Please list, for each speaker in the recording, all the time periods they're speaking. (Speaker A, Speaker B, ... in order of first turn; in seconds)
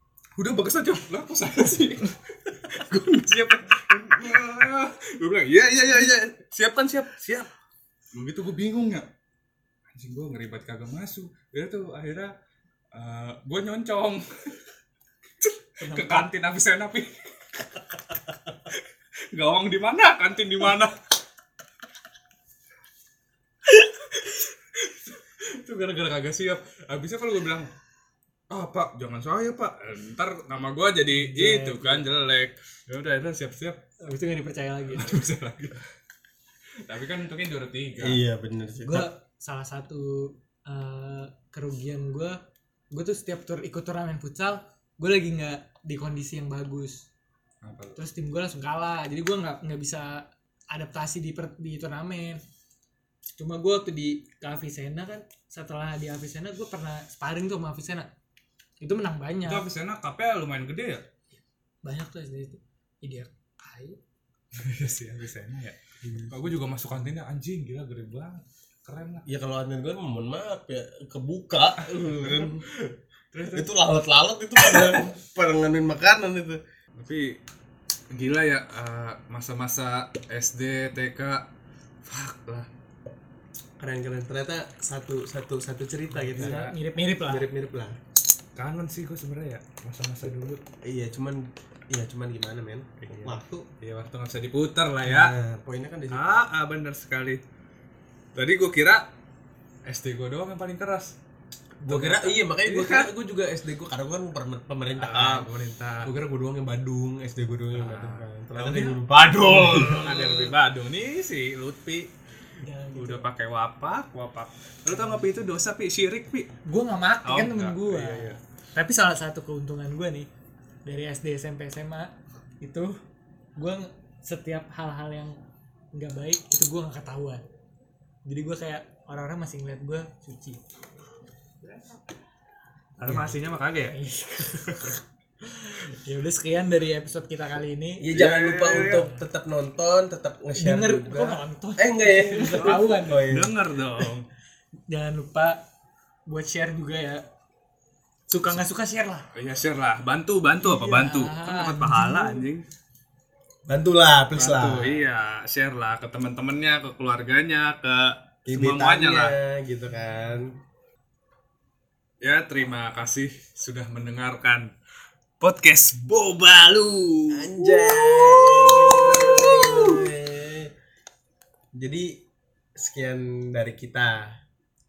Speaker A: 0.4-7.5, 8.1-9.1, 9.9-12.3, 12.9-14.5, 15.4-17.9, 19.3-20.9, 23.6-27.7, 28.5-33.8, 34.9-35.9, 36.8-38.2, 47.6-48.0, 59.4-61.0, 64.5-65.8, 66.3-69.2, 71.9-72.6, 73.3-73.7, 77.0-77.4, 78.1-81.5, 82.0-82.7, 86.1-86.7, 88.6-90.6, 93.0-95.3, 96.1-97.4, 98.3-99.1, 99.8-101.2, 101.9-103.1, 105.0-106.1, 107.7-112.1, 112.9-116.5, 117.2-118.4, 131.6-132.0, 133.0-133.9, 138.1-139.1, 142.4-144.3, 149.3-152.6, 154.3-159.3, 162.2-164.7, 165.4-167.5, 168.8-169.6
Speaker B: 15.8-16.3, 31.1-32.0, 34.0-35.2, 38.8-42.4, 42.9-47.1, 48.0-52.4, 53.4-58.1, 58.8-59.7, 61.8-64.0, 86.4-87.5, 112.6-113.2, 114.9-115.2, 116.6-120.3, 120.8-123.0, 123.6-125.4, 125.9-127.4, 128.3-130.6, 133.1-138.1, 140.6-143.3, 144.9-145.6, 146.3-147.2, 148.3-149.2, 150.6-152.4, 167.7-169.7
Speaker C: 38.0-39.1, 66.0-66.4, 69.2-72.7, 73.5-76.6, 83.8-86.6, 87.2-88.0, 90.8-93.7, 95.0-96.4, 101.8-105.5, 106.0-110.5, 138.0-143.5, 153.7-155.0, 158.5-160.5, 167.3-170.7, 171.7-172.2, 172.8-174.3